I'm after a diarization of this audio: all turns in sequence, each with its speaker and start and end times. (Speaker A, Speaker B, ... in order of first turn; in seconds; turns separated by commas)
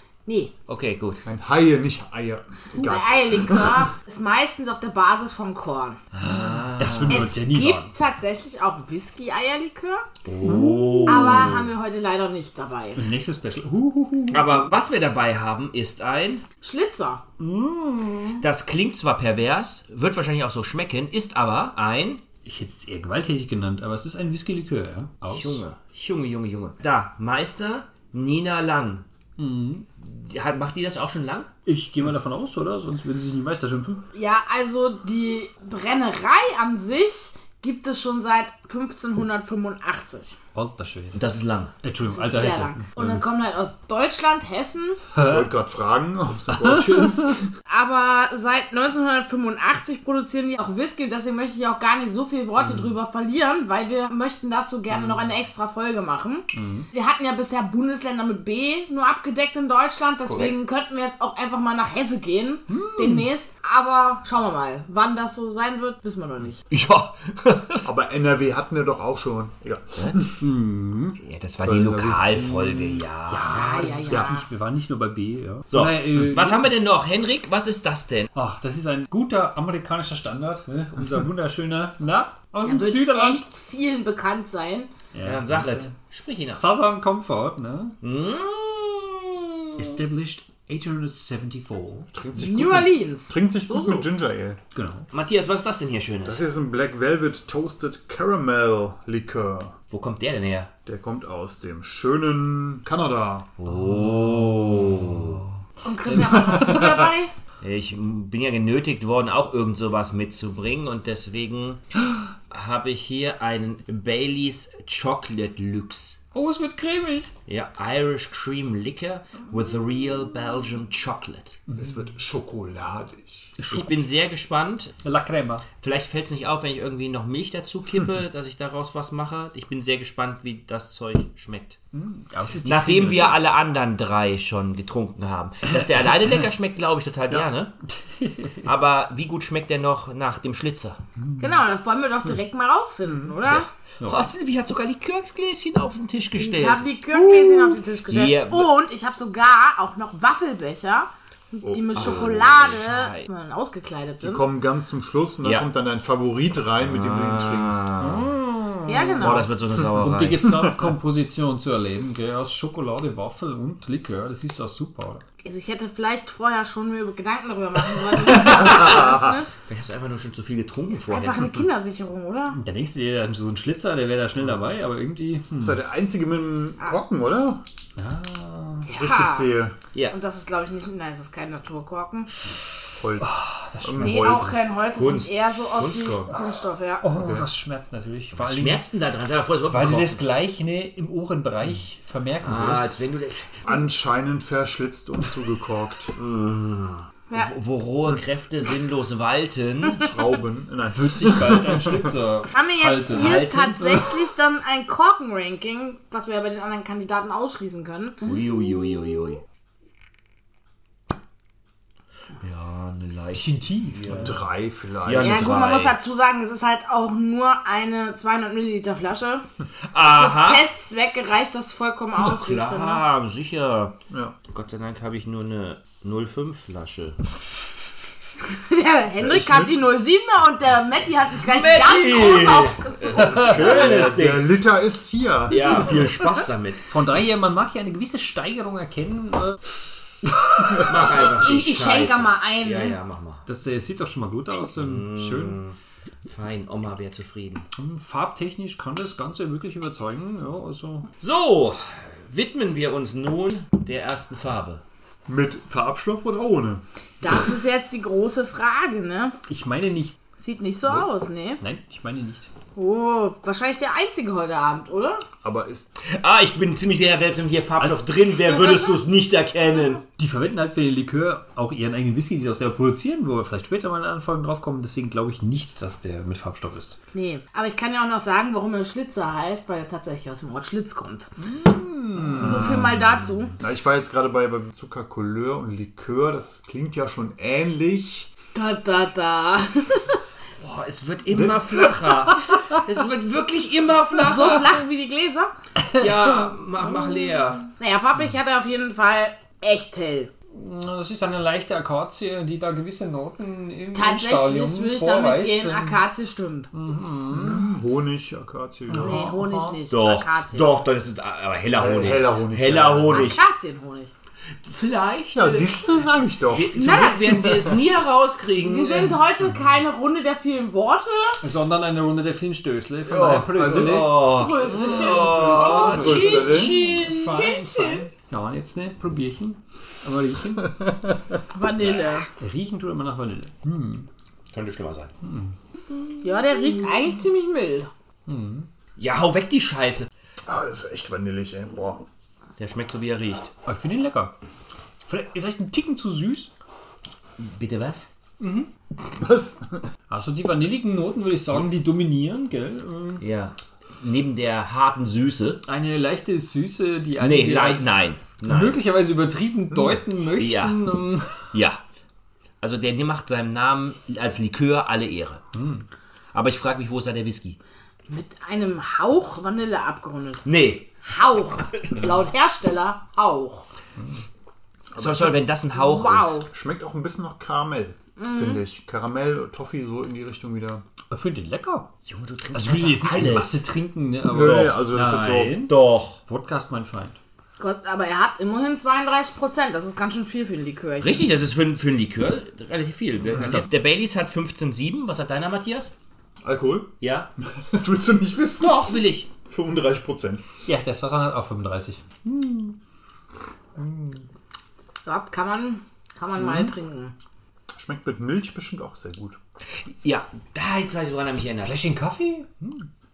Speaker A: 0.3-0.5, Speaker B: 0.7-1.2, Speaker C: 1.2-3.9, Speaker A: 2.8-6.0, Speaker B: 6.1-7.3, Speaker D: 6.2-7.9, Speaker A: 7.1-10.1, Speaker B: 10.3-11.7, Speaker D: 10.4-11.6, Speaker A: 11.1-13.0, Speaker D: 13.0-14.5, Speaker B: 14.3-16.4, Speaker A: 16.6-17.2, Speaker D: 17.4-18.4, Speaker B: 18.4-22.2, Speaker D: 22.4-25.6, Speaker B: 25.3-29.1, Speaker D: 29.4-29.9, Speaker B: 30.0-31.5, Speaker D: 31.7-34.0, Speaker A: 34.1-40.4, Speaker D: 40.5-41.2, Speaker B: 41.1-41.8, Speaker D: 41.8-43.2, Speaker A: 42.1-45.0, Speaker D: 45.1-45.5, Speaker C: 45.2-47.5, Speaker D: 46.5-47.4, Speaker A: 47.7-66.6, Speaker D: 52.6-52.9, Speaker D: 56.5-56.9, Speaker B: 60.3-60.6, Speaker D: 62.7-63.3, Speaker B: 66.7-67.9, Speaker C: 67.8-70.4, Speaker D: 70.4-71.2, Speaker B: 71.2-73.9, Speaker C: 71.6-73.1, Speaker D: 73.3-76.7, Speaker A: 73.5-74.5, Speaker B: 75.7-78.3, Speaker D: 78.3-83.5, Speaker A: 82.6-84.9, Speaker D: 85.1-88.0, Speaker B: 85.2-86.7, Speaker B: 88.0-90.0, Speaker D: 89.8-92.1, Speaker C: 92.1-94.6, Speaker A: 92.3-94.1, Speaker D: 94.7-95.1, Speaker B: 95.1-96.4, Speaker C: 96.2-99.8, Speaker B: 99.9-100.7, Speaker C: 100.9-103.5, Speaker B: 103.6-105.5, Speaker D: 103.7-105.3, Speaker A: 105.8-107.3, Speaker C: 106.1-107.1, Speaker B: 107.6-111.8, Speaker B: 112.5-116.2, Speaker D: 116.3-117.3, Speaker B: 117.5-121.6, Speaker C: 121.7-123.5, Speaker D: 123.6-124.0, Speaker B: 123.7-125.0, Speaker D: 125.0-125.7, Speaker B: 125.8-131.8, Speaker D: 131.9-133.4, Speaker B: 132.6-137.7, Speaker D: 138.2-138.6, Speaker B: 138.6-141.0, Speaker A: 141.4-143.7, Speaker C: 143.1-143.4, Speaker B: 143.5-146.9, Speaker D: 144.0-144.3, Speaker A: 146.4-154.4, Speaker D: 147.1-147.8, Speaker B: 148.1-148.7, Speaker C: 151.6-152.4, Speaker B: 151.9-153.3, Speaker C: 154.2-157.9, Speaker B: 156.8-158.3, Speaker D: 158.0-165.2, Speaker A: 158.9-159.5, Speaker B: 159.2-160.5, Speaker C: 160.5-160.9, Speaker A: 165.4-169.6, Speaker B: 169.7-171.6, Speaker A: 170.9-172.6, Speaker D: 172.6-175.8, Speaker C: 175.6-177.6, Speaker D: 178.0-178.9, Speaker C: 178.9-179.8, Speaker A: 178.9-179.5, Speaker A: 180.1-182.3, Speaker C: 183.0-184.5, Speaker D: 183.2-184.6, Speaker A: 184.0-187.1, Speaker B: 184.9-185.3, Speaker C: 185.8-186.1, Speaker D: 187.0-188.8, Speaker C: 187.1-187.5, Speaker B: 188.4-190.2, Speaker D: 189.7-193.0, Speaker B: 192.4-193.7, Speaker C: 193.7-196.2, Speaker B: 196.2-200.1, Speaker C: 199.9-202.2, Speaker D: 200.9-203.5, Speaker A: 202.5-208.2, Speaker B: 203.1-204.1, Speaker B: 208.2-209.4, Speaker B: 212.4-214.4, Speaker D: 213.3-214.3, Speaker C: 214.2-215.6, Speaker B: 215.0-216.0, Speaker A: 215.2-219.4, Speaker B: 219.9-220.6, Speaker A: 220.0-223.0, Speaker B: 222.2-224.0, Speaker B: 224.5-227.2, Speaker A: 228.5-233.6, Speaker C: 229.2-229.8, Speaker B: 231.5-234.5, Speaker C: 233.2-236.1, Speaker B: 235.5-236.9, Speaker D: 236.9-239.6, Speaker D: 240.3-240.8, Speaker B: 240.8-243.5, Speaker A: 241.1-243.0, Speaker D: 243.5-245.6, Speaker B: 244.8-247.7, Speaker D: 247.8-251.1, Speaker B: 251.2-254.8, Speaker C: 255.3-256.8, Speaker A: 257.2-259.4, Speaker D: 259.5-260.2, Speaker A: 260.4-261.6, Speaker D: 260.9-262.5, Speaker A: 262.8-265.2, Speaker C: 265.4-266.0, Speaker B: 266.0-270.0, Speaker A: 268.7-269.0, Speaker D: 270.2-277.0, Speaker A: 277.1-281.3, Speaker D: 281.4-283.0, Speaker C: 282.2-283.0, Speaker A: 282.4-283.5, Speaker C: 283.6-288.3, Speaker A: 288.5-290.2, Speaker B: 290.6-294.7, Speaker C: 291.3-291.9, Speaker A: 294.1-295.5, Speaker D: 295.8-296.4, Speaker B: 295.9-297.7, Speaker A: 297.8-300.3, Speaker D: 300.5-306.0, Speaker A: 303.9-306.7, Speaker D: 306.7-307.7, Speaker C: 307.3-309.8, Speaker D: 308.9-309.4, Speaker A: 309.0-310.7, Speaker B: 309.9-313.4, Speaker C: 311.7-313.4, Speaker A: 313.1-314.1, Speaker B: 314.6-315.8, Speaker C: 315.3-316.9, Speaker B: 316.5-319.2, Speaker A: 316.7-317.7, Speaker A: 318.6-321.4, Speaker D: 321.4-330.9, Speaker B: 323.1-327.5, Speaker A: 324.1-328.1, Speaker C: 325.7-326.8, Speaker A: 331.5-332.3, Speaker D: 331.8-334.1, Speaker B: 334.5-335.1, Speaker D: 335.2-335.6, Speaker A: 336.2-337.9, Speaker D: 338.3-338.7, Speaker B: 339.0-340.1, Speaker C: 340.5-342.0, Speaker B: 342.6-343.5, Speaker D: 343.7-344.4, Speaker D: 345.1-346.5, Speaker B: 347.4-348.1, Speaker D: 348.4-348.7, Speaker C: 349.0-349.9, Speaker D: 350.1-353.2, Speaker B: 353.2-355.6, Speaker D: 355.6-361.5, Speaker B: 357.2-358.8, Speaker B: 360.4-360.9, Speaker B: 361.5-361.8, Speaker B: 362.6-365.4, Speaker D: 365.6-365.9, Speaker B: 366.3-367.6, Speaker A: 368.1-370.4, Speaker B: 370.4-370.9, Speaker A: 371.0-373.6, Speaker C: 374.9-375.4, Speaker B: 374.9-376.4, Speaker A: 375.7-376.5, Speaker C: 376.5-380.8, Speaker A: 378.2-378.6, Speaker D: 381.1-381.9, Speaker B: 382.1-383.6, Speaker D: 382.5-387.2, Speaker C: 384.2-385.7, Speaker B: 384.4-384.8, Speaker B: 385.6-386.2, Speaker A: 387.6-391.3, Speaker B: 391.0-395.9, Speaker C: 396.4-400.4, Speaker B: 397.0-397.3, Speaker B: 398.6-399.3, Speaker D: 400.6-402.8, Speaker D: 403.8-404.3, Speaker A: 405.1-407.1, Speaker C: 407.8-409.4, Speaker B: 409.7-411.8, Speaker D: 411.6-412.8